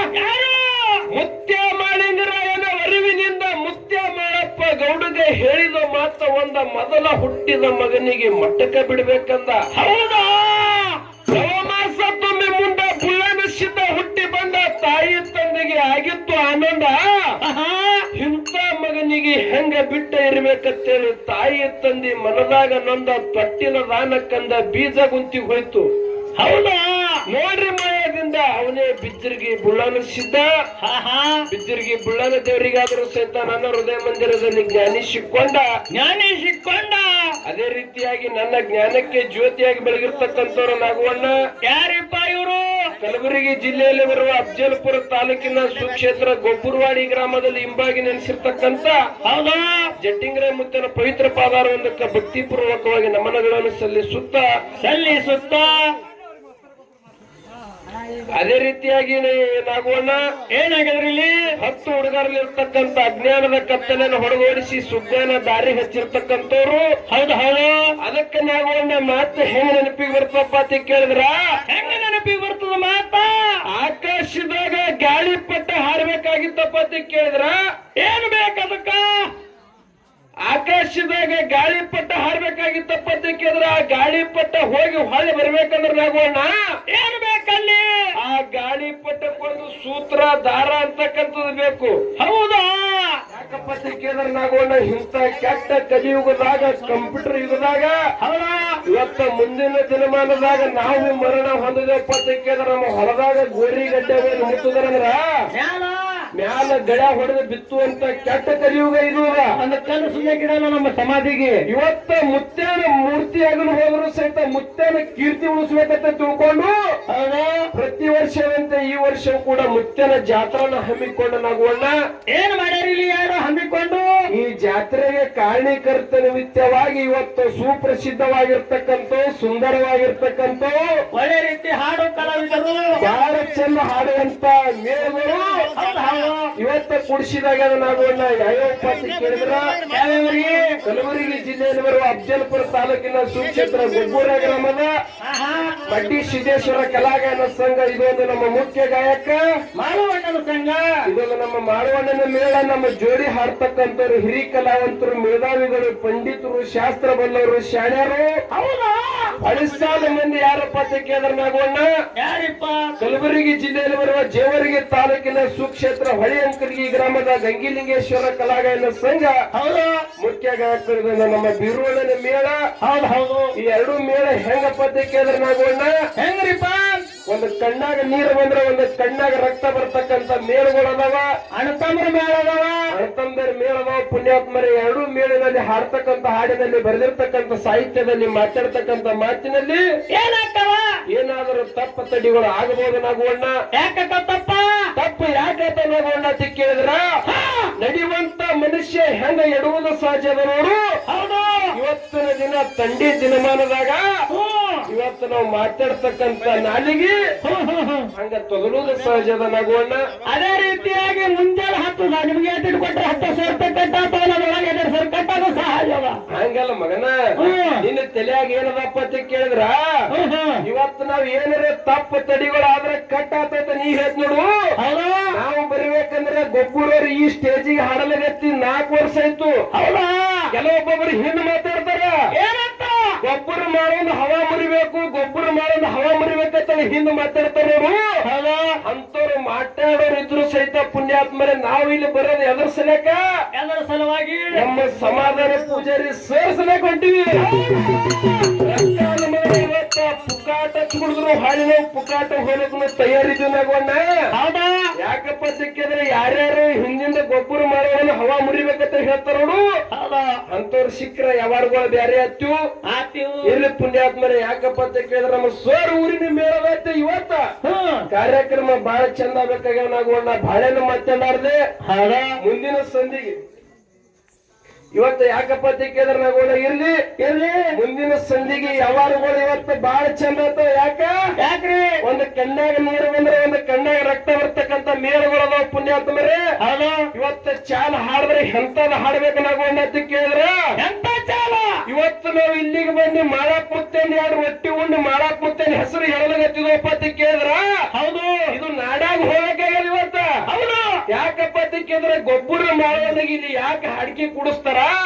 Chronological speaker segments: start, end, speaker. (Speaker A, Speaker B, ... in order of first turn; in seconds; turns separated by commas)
Speaker A: 0.1-1.0, Speaker B: 1.1-9.6, Speaker A: 9.7-11.0, Speaker B: 11.3-17.0, Speaker A: 17.4-18.0, Speaker B: 18.1-25.9, Speaker A: 26.4-27.2, Speaker B: 27.3-30.4, Speaker A: 30.8-31.4, Speaker B: 31.5-35.6, Speaker A: 35.9-37.3, Speaker B: 37.5-41.3, Speaker A: 41.6-42.9, Speaker B: 43.0-49.0, Speaker A: 49.2-49.9, Speaker B: 50.0-54.4, Speaker A: 54.8-55.9, Speaker B: 58.3-60.2, Speaker A: 60.5-61.4, Speaker B: 61.6-66.8, Speaker A: 67.1-67.9, Speaker B: 68.0-71.3, Speaker A: 71.7-73.6, Speaker B: 73.7-77.5, Speaker A: 78.0-79.3, Speaker B: 80.4-86.5, Speaker A: 86.9-88.1, Speaker B: 88.2-91.9, Speaker A: 92.2-93.2, Speaker B: 93.3-98.0, Speaker A: 98.2-98.8, Speaker B: 98.9-105.2, Speaker A: 105.5-106.3, Speaker B: 106.3-109.5, Speaker A: 109.5-111.6, Speaker B: 111.7-116.7, Speaker A: 117.1-117.7, Speaker B: 117.7-121.9, Speaker A: 122.3-124.1, Speaker B: 124.3-130.8, Speaker A: 131.1-132.9, Speaker B: 133.0-135.5, Speaker A: 135.7-136.5, Speaker B: 136.6-139.7, Speaker A: 139.9-140.8, Speaker B: 140.8-144.9, Speaker A: 145.2-145.8, Speaker B: 145.9-149.4, Speaker A: 149.7-150.8, Speaker B: 151.1-158.3, Speaker A: 158.5-159.3, Speaker B: 159.4-161.9, Speaker A: 162.2-162.9, Speaker B: 163.0-169.3, Speaker A: 169.5-170.0, Speaker B: 170.2-172.6, Speaker A: 172.8-173.5, Speaker B: 173.6-175.9, Speaker A: 176.2-177.0, Speaker B: 177.2-181.2, Speaker A: 181.5-182.9, Speaker B: 182.9-189.8, Speaker A: 190.1-190.9, Speaker B: 191.1-193.5, Speaker A: 193.7-194.9, Speaker B: 194.9-197.0, Speaker A: 197.3-197.7, Speaker B: 197.8-200.8, Speaker A: 201.1-201.7, Speaker B: 201.7-204.0, Speaker A: 204.3-204.9, Speaker B: 204.9-207.1, Speaker A: 207.4-208.1, Speaker B: 208.1-210.0, Speaker A: 210.2-216.2, Speaker B: 216.3-217.1, Speaker A: 217.4-217.8, Speaker B: 217.8-219.8, Speaker A: 220.1-220.6, Speaker B: 220.6-224.5, Speaker A: 224.8-225.3, Speaker B: 225.3-229.5, Speaker A: 229.7-230.5, Speaker B: 230.5-232.1, Speaker A: 232.4-233.1, Speaker B: 233.2-238.0, Speaker A: 238.2-238.7, Speaker B: 238.8-243.2, Speaker A: 243.5-244.7, Speaker B: 244.5-247.7, Speaker A: 247.7-248.3, Speaker B: 248.5-254.0, Speaker A: 254.4-254.9, Speaker B: 255.0-259.6, Speaker A: 259.9-260.4, Speaker B: 260.5-262.5, Speaker A: 262.8-263.6, Speaker B: 263.4-267.4, Speaker A: 267.6-268.1, Speaker B: 268.1-271.6, Speaker A: 271.8-272.3, Speaker B: 272.4-273.3, Speaker B: 274.9-276.9, Speaker A: 277.2-277.7, Speaker B: 277.7-281.1, Speaker A: 281.4-282.0, Speaker B: 282.0-286.4, Speaker A: 286.6-287.1, Speaker B: 287.1-290.5, Speaker A: 290.8-291.8, Speaker B: 291.9-297.6, Speaker A: 297.9-298.5, Speaker B: 298.5-300.2, Speaker A: 300.5-301.0, Speaker B: 301.1-304.9